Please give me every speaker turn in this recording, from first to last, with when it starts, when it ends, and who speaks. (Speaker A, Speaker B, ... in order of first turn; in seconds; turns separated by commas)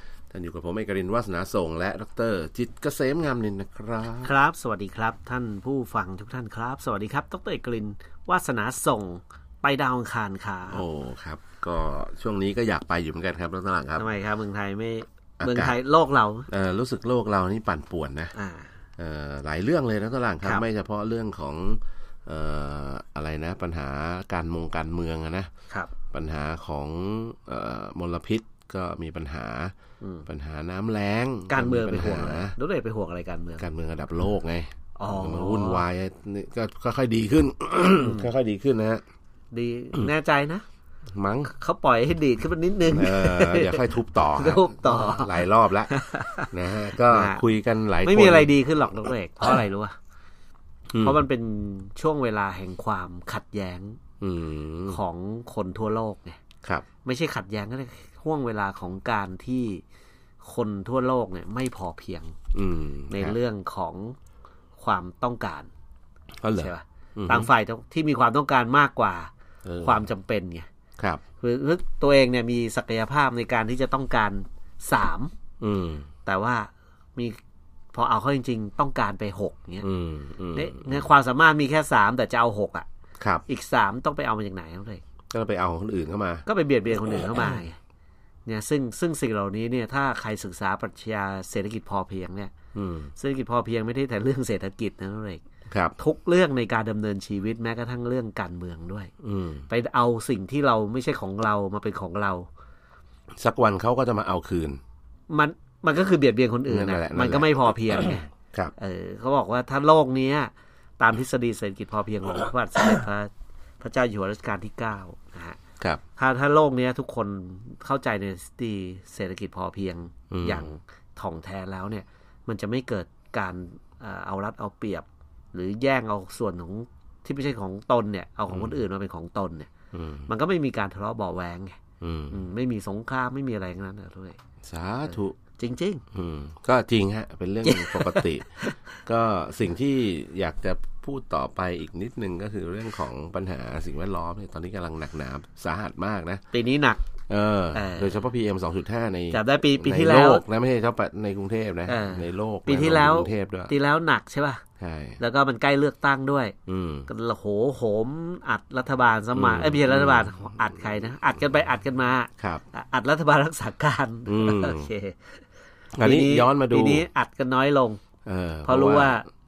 Speaker A: 0.3-4.3, Speaker B: 4.2-10.8, Speaker A: 10.7-14.1, Speaker B: 14.0-16.5, Speaker A: 15.4-15.8, Speaker A: 16.5-18.3, Speaker B: 18.4-18.7, Speaker A: 19.0-25.5, Speaker A: 26.1-29.7, Speaker B: 30.0-30.3, Speaker A: 30.3-32.5, Speaker B: 31.5-33.6, Speaker A: 33.6-39.0, Speaker B: 35.0-35.9, Speaker B: 38.0-38.3, Speaker B: 39.5-40.6, Speaker A: 41.1-41.5, Speaker B: 41.5-46.5, Speaker A: 42.9-48.5, Speaker B: 47.1-47.4, Speaker B: 48.0-50.0, Speaker A: 50.9-51.2, Speaker B: 51.0-54.0, Speaker A: 54.2-55.0, Speaker B: 54.9-56.4, Speaker B: 57.0-59.8, Speaker B: 60.4-62.4, Speaker A: 62.5-63.4, Speaker B: 63.1-64.2, Speaker B: 64.8-65.7, Speaker A: 66.4-67.5, Speaker B: 66.6-69.3, Speaker A: 69.7-70.0, Speaker B: 69.8-70.7, Speaker B: 71.4-75.3, Speaker A: 75.6-76.1, Speaker B: 76.3-77.4, Speaker B: 77.9-79.9, Speaker A: 79.8-81.1, Speaker B: 80.5-82.9, Speaker B: 83.5-85.0, Speaker A: 85.3-86.5, Speaker B: 86.5-87.8, Speaker A: 87.0-87.6, Speaker B: 88.5-92.5, Speaker A: 92.7-93.1, Speaker B: 93.2-95.4, Speaker A: 95.7-96.0, Speaker B: 96.0-99.1, Speaker A: 99.2-99.7, Speaker B: 99.7-102.5, Speaker A: 103.4-104.8, Speaker B: 105.3-115.6, Speaker A: 106.7-108.7, Speaker B: 116.2-129.7, Speaker A: 120.3-120.7, Speaker A: 128.5-128.7, Speaker A: 129.9-130.3, Speaker B: 130.3-131.8, Speaker A: 132.0-132.4, Speaker B: 132.3-134.4, Speaker A: 134.6-135.3, Speaker B: 135.1-136.0, Speaker A: 136.1-146.4, Speaker B: 137.7-138.8, Speaker B: 146.5-147.0, Speaker A: 147.3-153.8, Speaker B: 147.7-148.2, Speaker B: 149.3-150.4, Speaker B: 151.9-154.6, Speaker A: 154.8-155.2, Speaker B: 155.2-156.6, Speaker A: 156.7-157.1, Speaker B: 157.1-165.4, Speaker A: 159.3-160.6, Speaker A: 162.4-162.6, Speaker A: 164.3-164.9, Speaker A: 165.9-167.1, Speaker B: 166.0-168.0, Speaker A: 168.3-169.2, Speaker B: 168.7-169.2